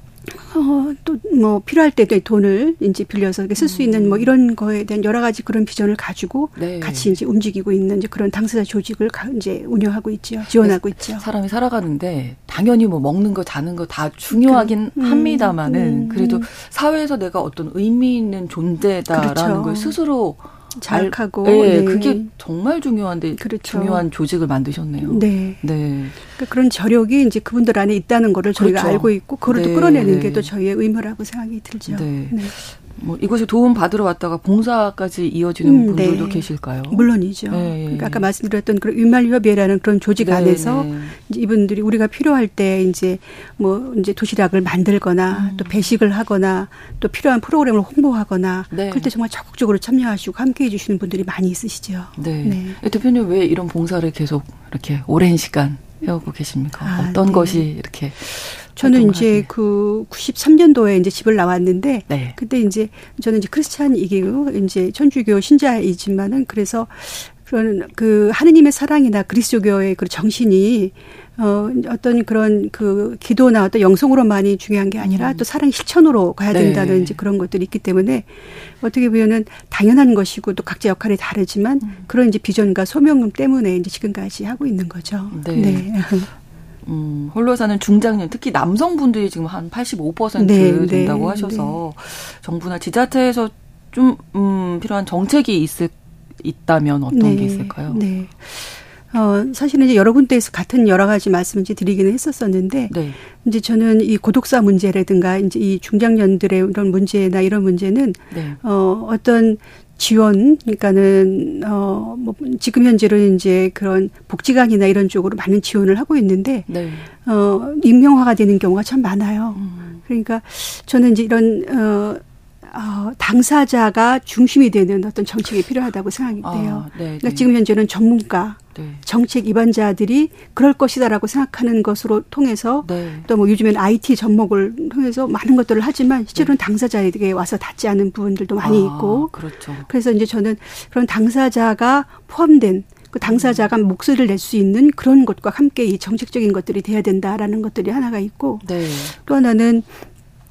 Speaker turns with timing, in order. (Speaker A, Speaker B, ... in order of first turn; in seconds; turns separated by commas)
Speaker A: 0.3-11.2, Speaker B: 3.6-4.3, Speaker B: 6.6-7.2, Speaker B: 10.6-26.2, Speaker A: 14.3-16.5, Speaker A: 19.1-20.0, Speaker A: 20.8-22.3, Speaker A: 23.4-24.0, Speaker A: 25.0-25.6, Speaker A: 26.2-32.5, Speaker B: 28.6-30.5, Speaker B: 31.9-38.3, Speaker A: 35.6-52.8, Speaker B: 40.2-41.2, Speaker B: 45.3-46.0, Speaker B: 48.7-49.1, Speaker B: 52.2-59.5, Speaker A: 56.8-57.7, Speaker A: 58.8-86.3, Speaker B: 62.1-62.4, Speaker B: 75.0-75.5, Speaker B: 76.5-77.2, Speaker B: 81.8-82.1, Speaker B: 85.3-85.9, Speaker B: 86.8-98.0, Speaker A: 90.4-91.8, Speaker A: 97.1-149.9, Speaker B: 102.9-103.2, Speaker B: 108.3-108.6, Speaker B: 116.7-117.1, Speaker B: 119.5-120.0, Speaker B: 126.4-127.5, Speaker B: 128.8-129.0, Speaker B: 132.8-133.3, Speaker B: 138.6-139.9, Speaker B: 143.2-143.7, Speaker B: 148.6-149.2